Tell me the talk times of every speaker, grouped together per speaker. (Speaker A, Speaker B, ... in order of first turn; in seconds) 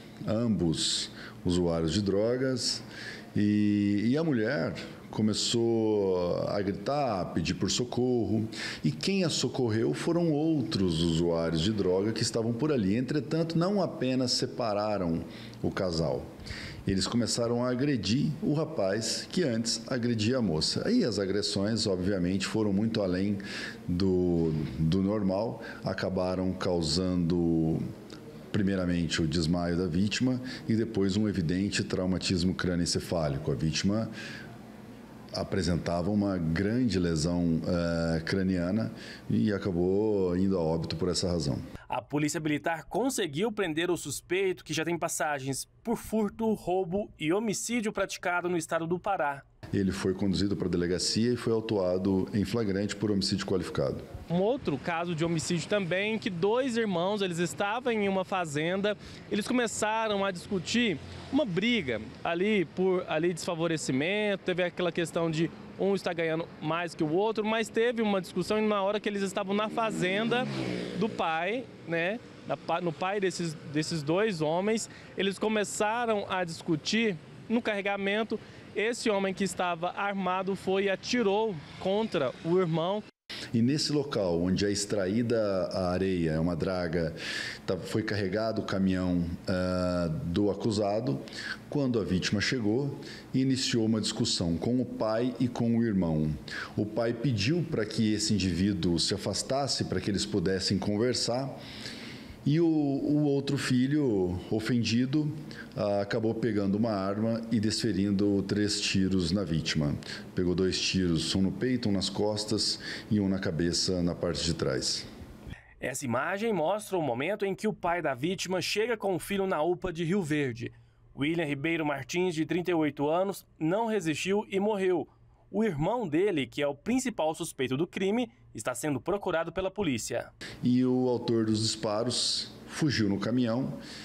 Speaker A: 0.2-16.3, 16.9-27.8, 28.5-34.1, 35.3-41.6, 49.7-54.0, 83.5-101.6, 102.4-115.0, 130.6-133.8
Speaker B: 41.9-49.4, 54.3-83.0, 115.8-130.3